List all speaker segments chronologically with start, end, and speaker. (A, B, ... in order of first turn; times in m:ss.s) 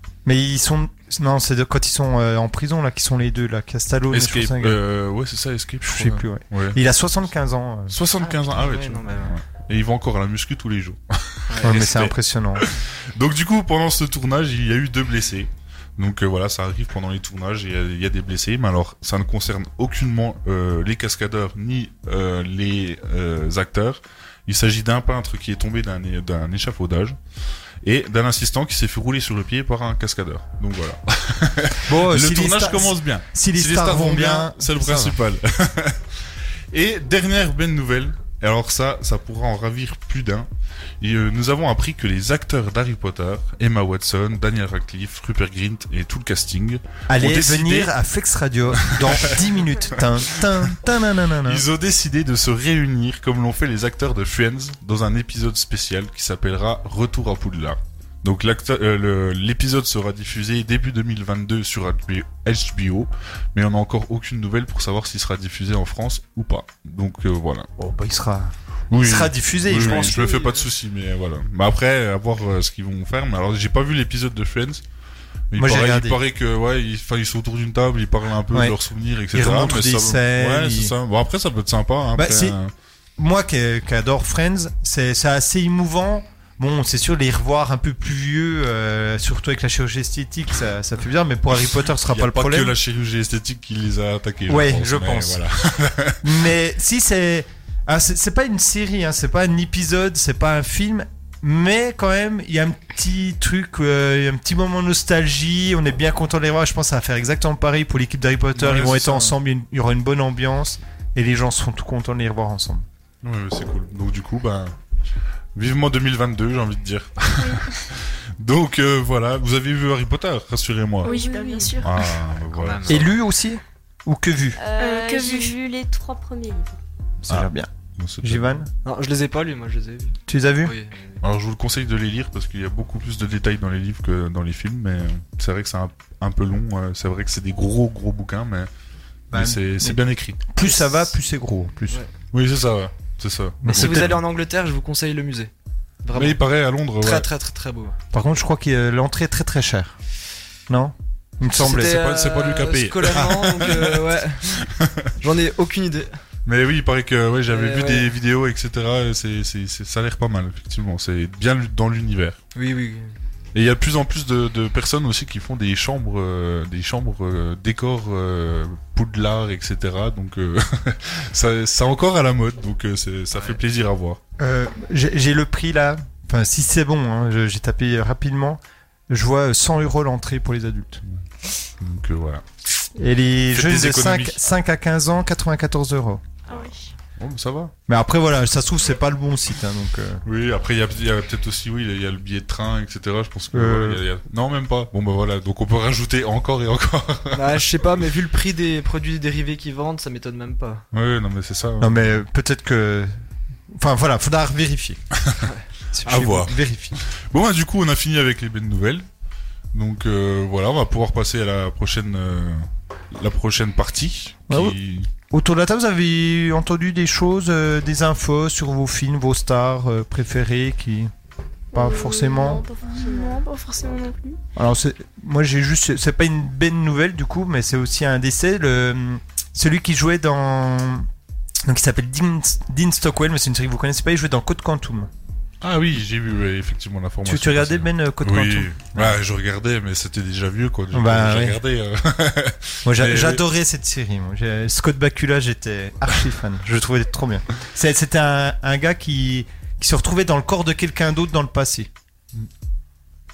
0:00.2-0:04.8 A
0:04.1-0:06.8 B
0:05.8-0:08.0 A
0:07.9-0:27.2 B
0:08.2-0:09.4 C
0:11.5-0:11.8 C
0:11.6-0:12.7 A
0:27.8-0:36.2 B
0:31.8-0:35.2 A
0:36.7-0:40.5 B
0:41.0-0:47.9 B
0:47.1-0:51.7 A
0:48.8-0:49.5 B
0:50.3-0:50.8 B
0:51.4-1:07.7 B
1:07.8-1:10.2 A
1:08.9-1:14.8 B
1:09.7-1:10.7 C
1:15.5-1:22.7 B
1:15.6-1:16.2 A
1:18.5-1:18.8 A
1:19.3-1:20.9 A
1:22.2-1:22.6 A
1:23.2-1:32.8 A
1:31.9-1:36.3 B
1:34.5-1:35.4 A
1:36.2-1:52.9 A
1:48.6-1:49.4 B
1:53.2-1:54.8 B
1:55.6-2:01.1 B
1:57.4-1:57.8 D
2:01.0-2:02.1 D
2:01.0-2:01.8 E
2:01.8-2:03.1 B
2:02.5-2:03.1 C
2:02.9-2:04.6 A
2:04.6-2:06.8 E
2:04.8-2:05.5 D
2:07.2-2:07.7 A
2:07.3-2:08.6 B
2:08.2-2:08.7 A
2:08.8-2:11.2 C
2:10.3-2:10.8 A
2:11.2-2:18.7 B
2:19.3-2:22.0 A
2:19.3-2:20.5 B
2:22.3-2:24.2 B
2:23.6-2:24.2 A
2:23.7-2:25.5 C
2:26.0-2:26.4 C
2:26.1-2:27.3 B
2:27.0-2:28.0 C
2:28.1-2:30.0 A
2:30.7-2:32.0 A
2:31.5-2:35.1 B
2:31.6-2:34.6 C
2:35.2-2:36.2 C
2:36.5-2:42.4 B
2:37.5-2:38.1 C
2:42.6-2:43.2 C
2:43.5-2:54.2 B
2:53.3-2:53.6 C
2:54.4-3:01.0 A
3:01.1-3:02.4 B
3:03.0-3:06.2 A
3:03.5-3:04.4 B
3:06.5-3:06.9 D
3:07.2-3:07.7 B
3:07.9-3:10.2 A
3:10.2-3:18.1 B
3:13.5-3:14.0 A
3:17.3-3:20.8 C
3:20.9-3:22.2 B
3:21.8-3:23.1 A
3:23.7-3:25.0 A
3:25.2-3:25.5 B
3:25.9-3:27.0 A
3:26.0-3:29.1 B
3:29.7-3:35.1 B
3:34.5-3:34.8 A
3:35.3-3:41.1 A
3:41.7-3:43.4 E
3:41.7-3:42.6 A
3:42.9-3:44.4 D
3:44.6-3:51.1 A
3:51.6-3:55.1 A
3:55.6-4:03.4 B
3:57.2-3:59.2 A
4:00.9-4:01.6 A
4:02.8-4:11.9 A